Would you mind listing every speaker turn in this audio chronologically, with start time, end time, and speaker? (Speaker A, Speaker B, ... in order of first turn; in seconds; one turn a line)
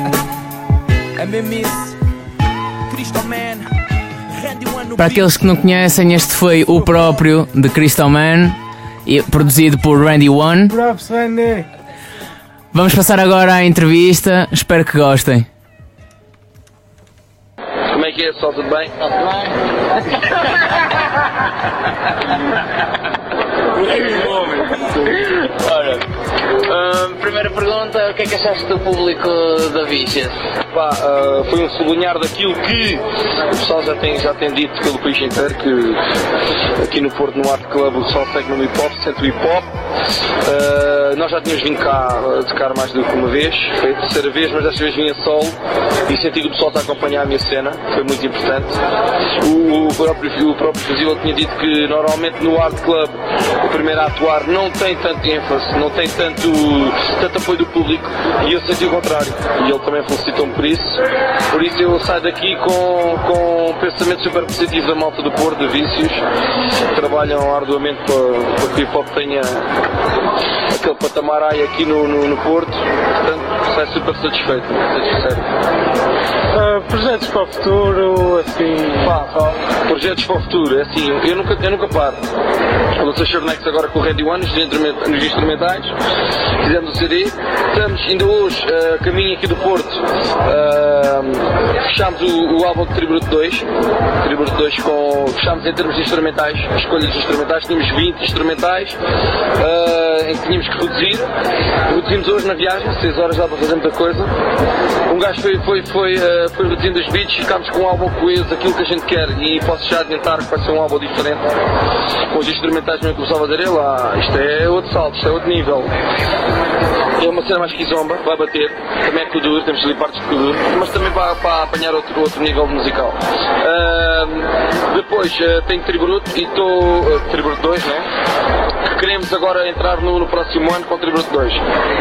Speaker A: 1.2-1.9
Speaker A: 2.9-3.7
Speaker A: 4.3-5.5
Speaker B: 5.0-10.8
Speaker C: 10.7-11.7
Speaker B: 12.7-15.5
Speaker D: 17.9-19.0
Speaker E: 23.8-24.5
Speaker E: 25.3-26.0
Speaker E: 26.6-30.5
Speaker D: 30.7-36.0
Speaker D: 36.8-39.7
Speaker D: 40.4-48.8
Speaker D: 49.4-61.0
Speaker D: 61.5-66.2
Speaker D: 66.9-69.7
Speaker D: 70.7-75.5
Speaker C: 76.5-79.2
Speaker D: 79.0-82.2
Speaker D: 83.0-85.9
Speaker D: 86.6-93.7
Speaker D: 94.2-99.0
Speaker D: 99.6-101.3
Speaker D: 101.9-104.3
Speaker D: 105.1-111.4
Speaker D: 112.3-115.9
Speaker D: 117.2-128.1
Speaker D: 128.9-131.6